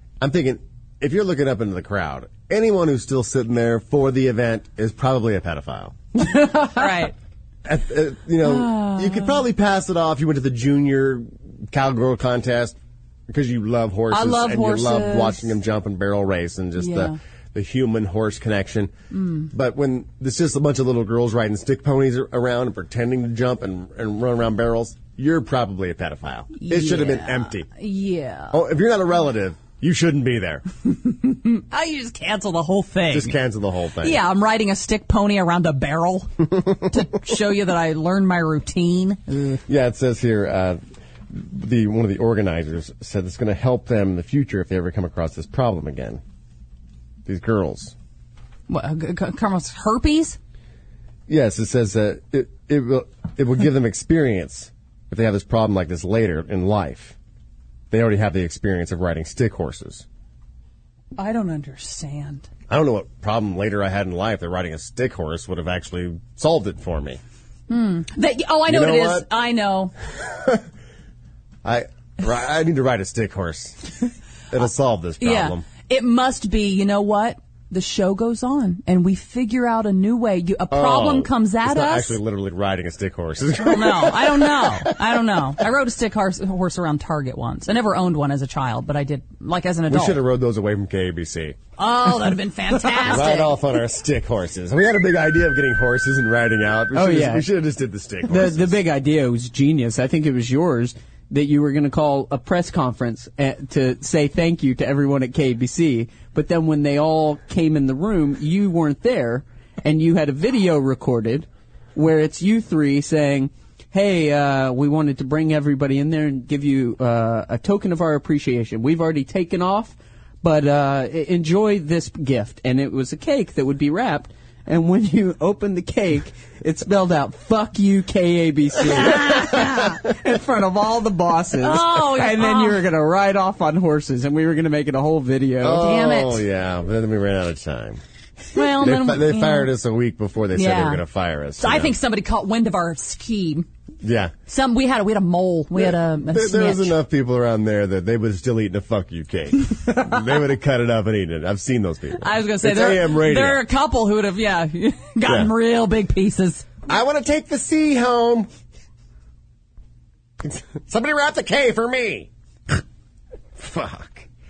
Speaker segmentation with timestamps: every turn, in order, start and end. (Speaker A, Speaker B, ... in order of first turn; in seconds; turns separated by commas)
Speaker A: 0.2-6.0, Speaker B: 6.3-6.7, Speaker C: 6.8-7.1, Speaker A: 7.7-12.8, Speaker C: 8.4-9.4, Speaker A: 13.3-18.9, Speaker C: 14.1-15.5, Speaker C: 16.8-17.2, Speaker C: 19.1-19.5, Speaker A: 19.5-27.7, Speaker C: 26.6-28.6, Speaker A: 28.5-30.6, Speaker C: 31.0-33.4, Speaker A: 33.1-34.2, Speaker C: 34.0-39.6, Speaker A: 39.7-46.2, Speaker A: 47.3-48.0, Speaker C: 48.7-50.4, Speaker A: 51.3-57.2, Speaker A: 57.9-60.0, Speaker C: 61.2-62.5, Speaker A: 62.7-67.2, Speaker C: 67.7-69.9, Speaker A: 68.7-69.3, Speaker A: 70.2-70.6, Speaker A: 71.6-74.0, Speaker A: 74.5-75.7, Speaker C: 75.2-82.2, Speaker A: 80.7-85.5, Speaker C: 83.6-90.2, Speaker A: 89.9-91.6, Speaker C: 91.8-93.6, Speaker A: 93.0-98.8, Speaker B: 96.9-97.5, Speaker B: 98.3-135.8, Speaker C: 129.0-130.0, Speaker C: 131.6-132.8, Speaker A: 135.6-138.0, Speaker C: 135.7-136.4, Speaker C: 138.5-139.7, Speaker A: 138.6-141.9, Speaker C: 140.5-141.0, Speaker C: 141.6-143.7, Speaker A: 144.0-144.3, Speaker C: 144.5-147.0, Speaker A: 145.7-153.6, Speaker C: 152.2-156.7, Speaker A: 155.2-155.5, Speaker A: 156.9-158.5, Speaker A: 160.4-162.3, Speaker A: 163.6-164.3